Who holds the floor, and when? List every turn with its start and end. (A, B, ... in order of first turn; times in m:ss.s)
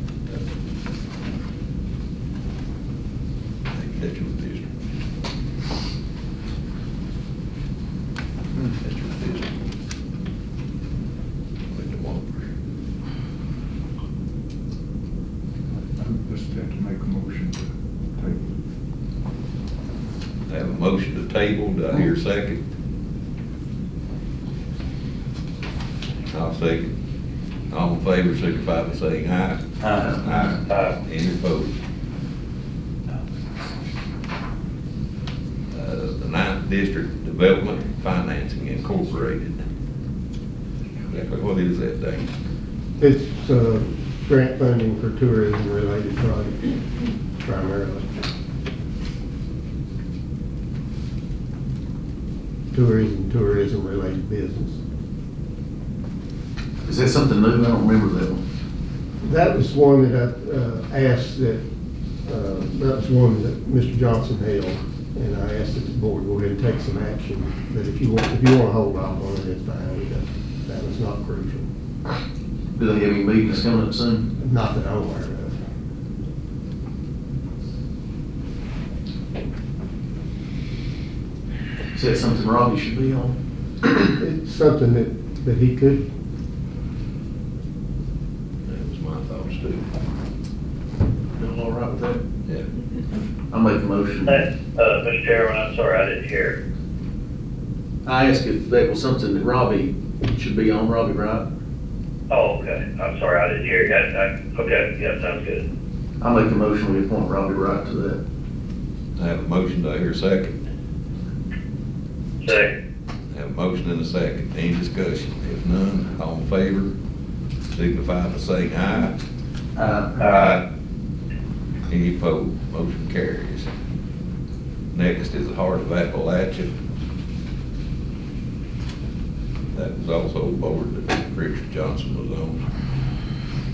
0:03.8-0:04.7 A
0:08.8-0:09.5 A
0:11.7-0:12.4 A
0:15.8-0:18.5 B
0:20.5-0:22.6 A
0:26.3-0:26.9 A
0:27.7-0:29.6 A
0:29.8-0:30.6 B
0:30.2-0:31.7 A
0:35.7-0:39.6 A
0:41.1-0:42.3 A
0:43.0-0:46.8 C
0:47.4-0:48.1 C
0:52.7-0:54.8 C
0:56.8-0:58.4 D
0:59.2-1:01.6 C
1:02.2-1:11.7 C
1:12.8-1:14.3 D
1:14.4-1:15.6 C
1:21.9-1:23.4 D
1:24.1-1:26.1 C
1:28.6-1:29.8 A
1:31.4-1:32.2 D
1:33.5-1:34.4 D
1:34.3-1:36.6 E
1:38.0-1:41.5 D
1:42.3-1:45.6 E
1:46.2-1:48.2 D
1:49.2-1:50.5 A
1:52.4-1:52.7 E
1:53.3-1:56.9 A
1:57.7-1:59.1 A
1:59.8-2:00.2 D
2:00.2-2:00.6 E
2:00.3-2:00.6 A
2:01.9-2:03.7 A
2:04.9-2:06.7 A
2:09.7-2:12.6 A